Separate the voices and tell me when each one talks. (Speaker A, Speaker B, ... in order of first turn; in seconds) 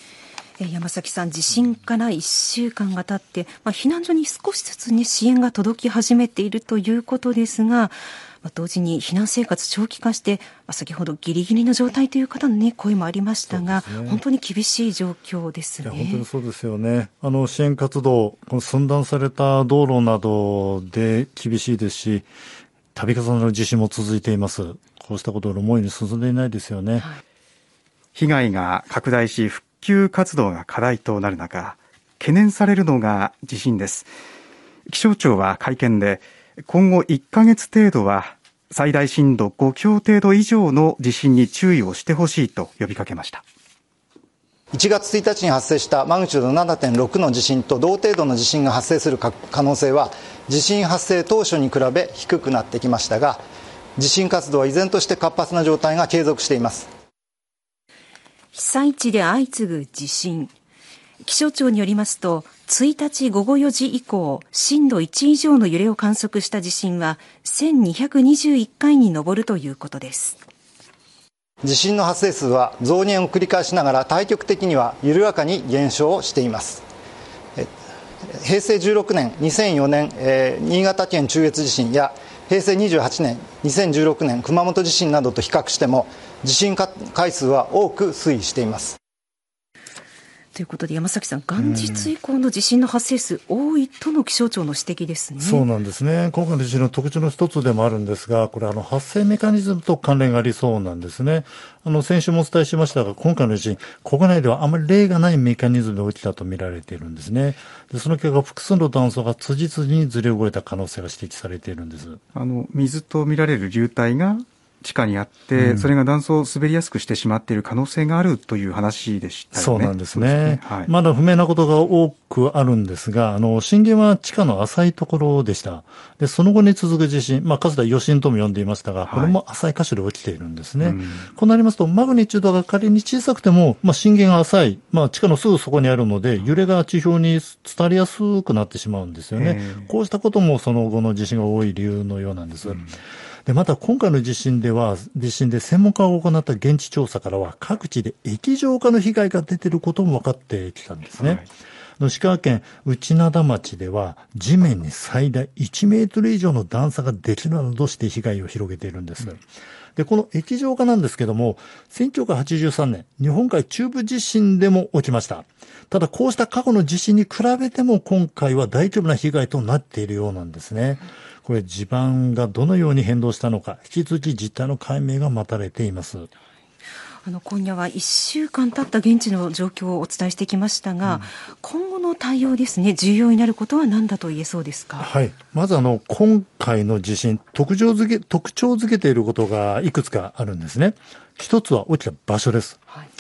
Speaker A: 0.6-16.2, 58.5-60.5, 61.2-70.4, 90.5-95.7, 177.2-185.1
Speaker B: 13.5-14.2, 15.8-22.3, 22.9-27.1, 91.6-92.1, 95.4-112.2, 115.6-115.9, 119.5-142.9, 143.5-151.4, 152.0-159.4, 160.0-176.3, 185.0-192.8
Speaker C: 28.1-34.1, 34.9-43.4, 112.3-120.9, 129.1-129.4, 130.8-131.3, 139.3-139.9, 151.2-151.5
Speaker D: 44.7-53.4, 54.0-56.9, 71.6-76.8, 78.3-89.0